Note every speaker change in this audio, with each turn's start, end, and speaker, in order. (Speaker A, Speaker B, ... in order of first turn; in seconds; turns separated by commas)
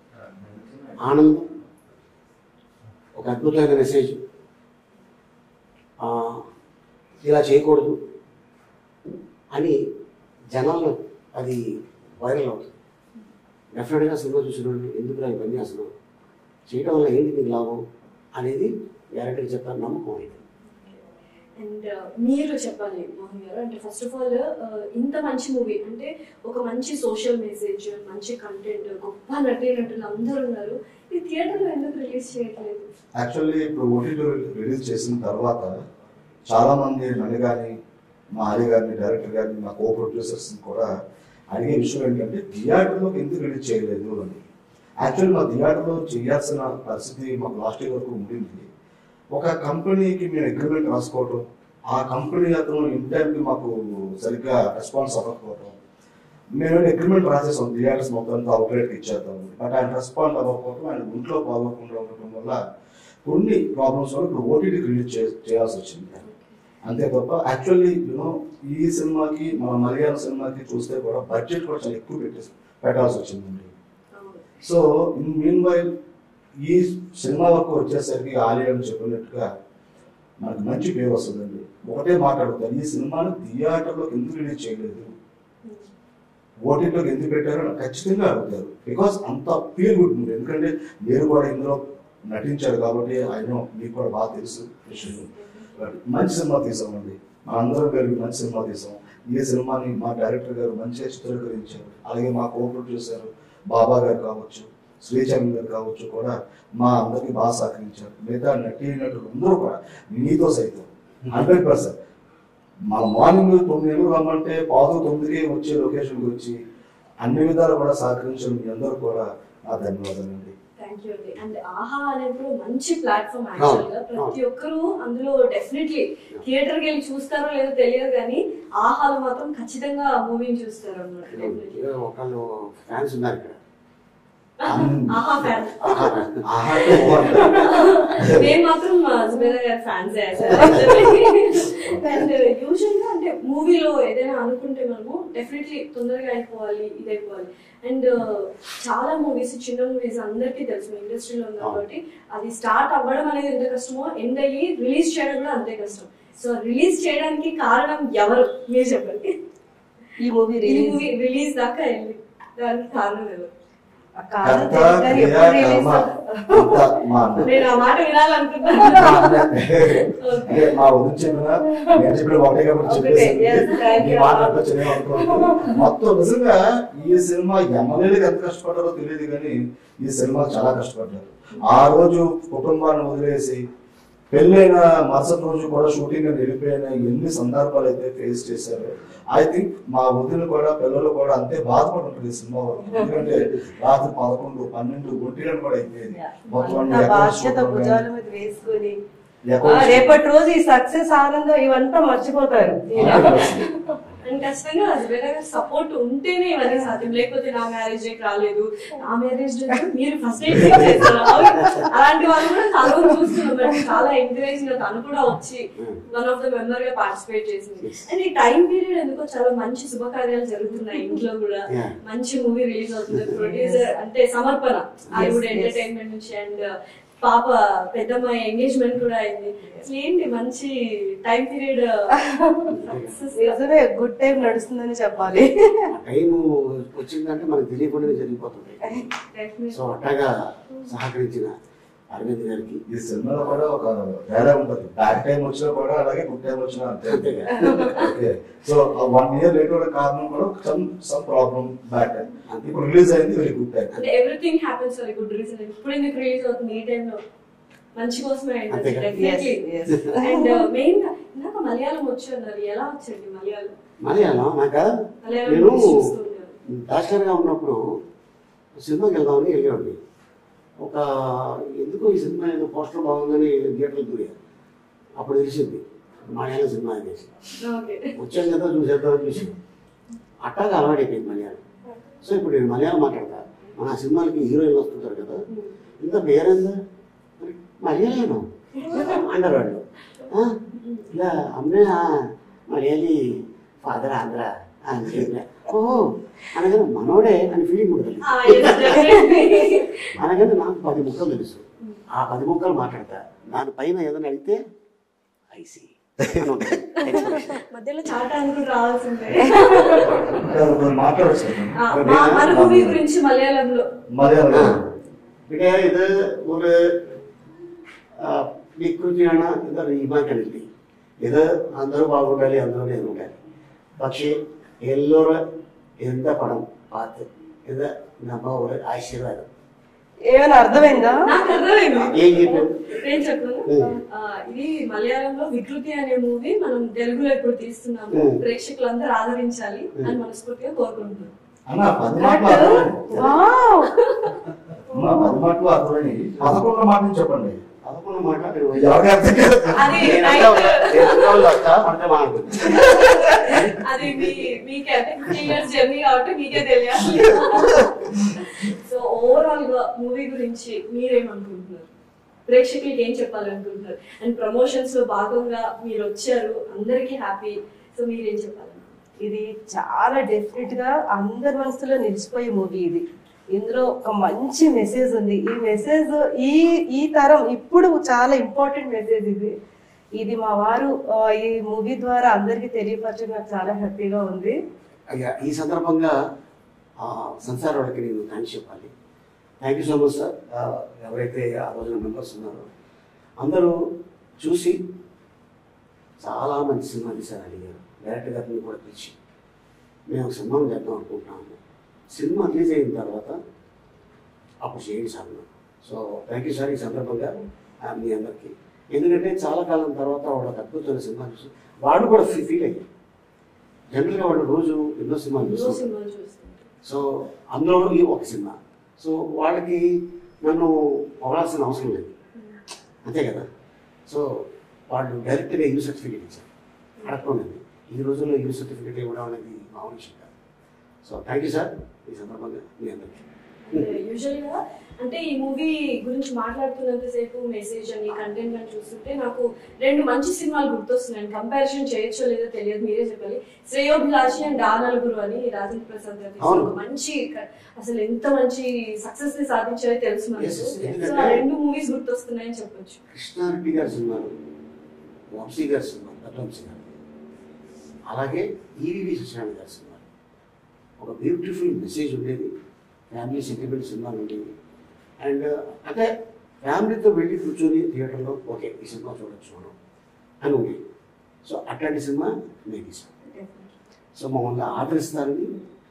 Speaker A: 0.5-0.8, Speaker B: 0.9-1.5, Speaker B: 3.2-4.2, Speaker B: 6.0-6.4, Speaker B: 7.2-8.0, Speaker B: 10.5-11.6, Speaker B: 12.2-12.7, Speaker B: 13.7-15.9, Speaker B: 16.7-17.8, Speaker B: 18.3-20.4, Speaker C: 21.6-32.9, Speaker A: 33.2-35.8, Speaker A: 36.5-37.8, Speaker A: 38.4-40.9, Speaker A: 41.5-44.4, Speaker A: 45.0-48.7, Speaker A: 49.3-55.8, Speaker A: 56.5-62.6, Speaker A: 63.2-66.2, Speaker C: 66.2-66.5, Speaker A: 66.8-73.7, Speaker C: 74.1-74.6, Speaker A: 74.6-75.9, Speaker A: 76.6-79.5, Speaker A: 80.4-85.1, Speaker A: 86.6-112.0, Speaker C: 95.0-95.7, Speaker A: 112.9-116.6, Speaker A: 117.2-120.5, Speaker C: 120.8-131.8, Speaker B: 123.6-124.3, Speaker B: 131.3-133.6, Speaker C: 134.6-136.3, Speaker B: 134.7-134.9, Speaker A: 134.7-135.2, Speaker B: 135.8-137.5, Speaker A: 136.4-138.4, Speaker C: 136.8-159.4, Speaker B: 140.4-140.8, Speaker D: 140.6-141.4, Speaker D: 142.0-142.5, Speaker D: 160.2-161.0, Speaker C: 160.6-163.5, Speaker D: 164.2-166.9, Speaker A: 164.4-167.5, Speaker C: 167.4-169.5, Speaker D: 168.8-169.3, Speaker A: 168.8-183.6, Speaker C: 170.2-170.7, Speaker D: 172.8-175.8, Speaker C: 173.5-174.5, Speaker A: 184.3-198.0, Speaker D: 192.9-193.4, Speaker C: 196.5-196.8, Speaker D: 196.5-199.0, Speaker A: 199.5-200.2, Speaker D: 199.6-204.0, Speaker C: 202.9-203.5, Speaker A: 202.9-203.6, Speaker C: 204.2-226.7, Speaker A: 210.5-210.9, Speaker B: 215.8-216.0, Speaker B: 217.8-218.1, Speaker B: 221.7-222.0, Speaker B: 223.1-223.4, Speaker D: 223.3-223.9, Speaker D: 225.1-225.8, Speaker C: 227.2-233.6, Speaker D: 232.2-232.7, Speaker B: 232.7-233.2, Speaker D: 233.3-235.9, Speaker B: 235.9-239.1, Speaker C: 239.3-239.8, Speaker B: 239.7-241.5, Speaker B: 242.1-242.8, Speaker A: 242.9-254.0, Speaker B: 247.1-248.1, Speaker B: 252.5-252.7, Speaker C: 253.9-257.2, Speaker C: 257.9-259.6, Speaker B: 258.7-259.1, Speaker D: 259.1-260.6, Speaker C: 260.1-263.7, Speaker B: 264.0-266.0, Speaker C: 265.2-266.5, Speaker B: 266.7-267.9, Speaker B: 268.8-270.0, Speaker B: 270.8-274.4, Speaker B: 275.2-277.3, Speaker C: 277.6-278.2, Speaker B: 278.2-279.5, Speaker B: 280.4-281.6, Speaker B: 282.2-285.4, Speaker B: 286.0-286.8, Speaker B: 287.4-299.1, Speaker C: 298.2-300.1, Speaker B: 300.1-304.6, Speaker B: 305.5-307.6, Speaker C: 307.0-310.3, Speaker D: 309.5-310.0, Speaker A: 310.3-313.0, Speaker C: 311.8-313.9, Speaker B: 311.9-312.7, Speaker A: 314.1-314.8, Speaker B: 314.5-314.9, Speaker B: 315.5-317.1, Speaker B: 318.2-320.7, Speaker B: 321.2-323.4, Speaker B: 324.0-325.4, Speaker B: 326.0-329.5, Speaker D: 330.3-331.3, Speaker C: 331.2-341.3, Speaker B: 331.9-333.0, Speaker B: 333.7-334.0, Speaker B: 338.1-338.4, Speaker A: 341.7-343.0, Speaker D: 342.2-343.9, Speaker B: 342.5-343.4, Speaker C: 343.9-344.4, Speaker A: 344.9-347.6, Speaker D: 344.9-345.3, Speaker B: 347.8-354.5, Speaker A: 348.7-350.0, Speaker C: 349.7-351.4, Speaker C: 352.6-361.9, Speaker B: 357.1-357.8, Speaker C: 362.5-369.0, Speaker D: 369.2-379.5, Speaker D: 380.2-384.6, Speaker B: 385.1-386.2, Speaker B: 387.0-388.9, Speaker B: 389.6-392.6, Speaker B: 393.4-393.7, Speaker B: 394.4-394.8, Speaker B: 396.2-399.1, Speaker B: 400.1-401.6, Speaker B: 402.1-403.4, Speaker B: 404.6-412.8, Speaker B: 413.9-415.8, Speaker C: 415.4-416.7, Speaker B: 416.8-422.1, Speaker B: 423.0-423.5, Speaker B: 424.1-426.4, Speaker C: 427.0-427.3, Speaker B: 427.0-430.3, Speaker B: 431.0-433.9, Speaker C: 433.7-453.0, Speaker B: 446.4-446.7, Speaker B: 450.4-451.4, Speaker B: 453.1-454.3, Speaker B: 455.3-456.9, Speaker B: 458.1-460.0, Speaker B: 461.0-462.5, Speaker B: 463.1-464.5, Speaker B: 465.2-466.1, Speaker B: 466.6-469.7, Speaker B: 470.4-470.8, Speaker B: 471.4-473.1, Speaker C: 473.3-473.7, Speaker B: 474.1-475.5